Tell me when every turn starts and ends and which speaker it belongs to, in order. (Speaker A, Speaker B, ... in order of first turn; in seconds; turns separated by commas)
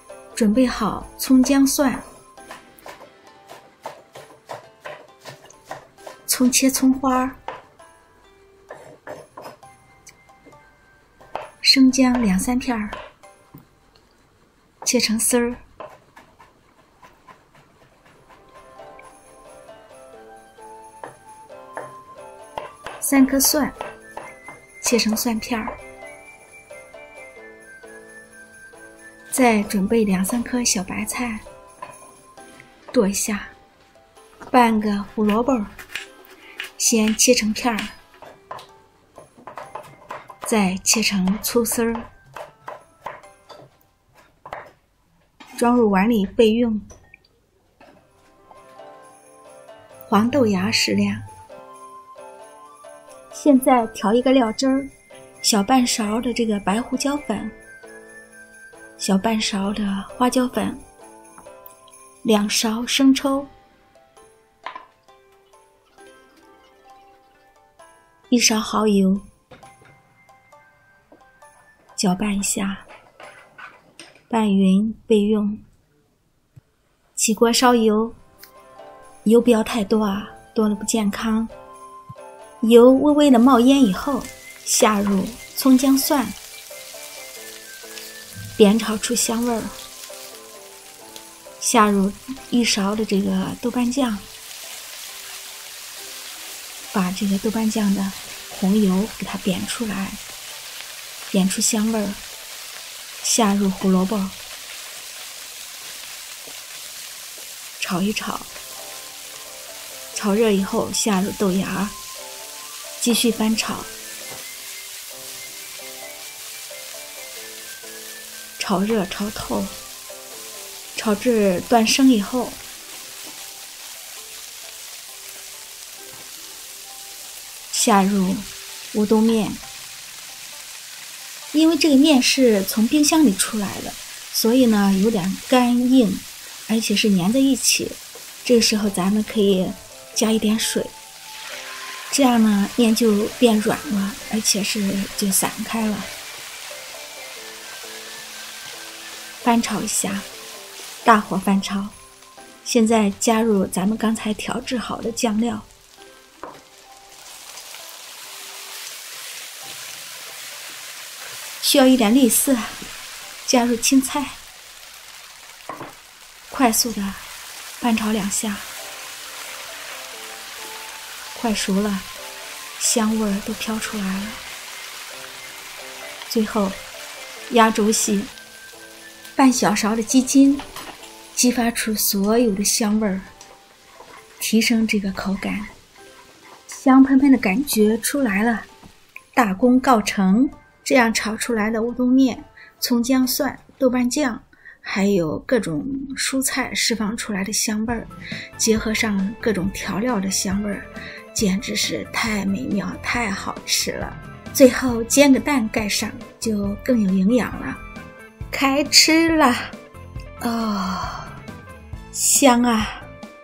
Speaker A: 0.3-2.0, Speaker A: 6.3-7.4, Speaker A: 11.6-13.0, Speaker A: 14.8-15.6, Speaker A: 23.0-23.8, Speaker A: 24.8-25.8, Speaker A: 29.3-31.4, Speaker A: 32.9-33.5, Speaker A: 34.5-35.7, Speaker A: 36.8-37.9, Speaker A: 40.4-42.1, Speaker A: 45.6-46.8, Speaker A: 50.1-51.2, Speaker A: 53.3-54.9, Speaker A: 55.4-57.5, Speaker A: 59.0-60.8, Speaker A: 62.2-63.5, Speaker A: 68.3-69.2, Speaker A: 72.0-72.9, Speaker A: 74.3-75.6, Speaker A: 77.2-78.2, Speaker A: 79.2-81.5, Speaker A: 82.6-86.4, Speaker A: 88.6-89.7, Speaker A: 91.6-94.3, Speaker A: 96.9-100.2, Speaker A: 101.3-102.2, Speaker A: 103.2-104.3, Speaker A: 107.8-108.5, Speaker A: 110.1-112.0, Speaker A: 113.0-113.9, Speaker A: 118.6-119.7, Speaker A: 121.0-122.6, Speaker A: 127.7-129.6, Speaker A: 131.5-140.9, Speaker A: 142.1-146.1, Speaker A: 149.4-150.3, Speaker A: 151.0-151.9, Speaker A: 152.6-155.7, Speaker A: 161.6-162.8, Speaker A: 163.4-164.4, Speaker A: 166.5-167.2, Speaker A: 167.8-168.7, Speaker A: 171.3-172.1, Speaker A: 172.8-174.4, Speaker A: 176.3-176.8, Speaker A: 177.5-178.3, Speaker A: 179.4-180.7, Speaker A: 181.3-183.3, Speaker A: 184.4-185.7, Speaker A: 186.7-188.7, Speaker A: 189.3-207.8, Speaker A: 208.5-209.8, Speaker A: 210.4-211.4, Speaker A: 212.1-213.1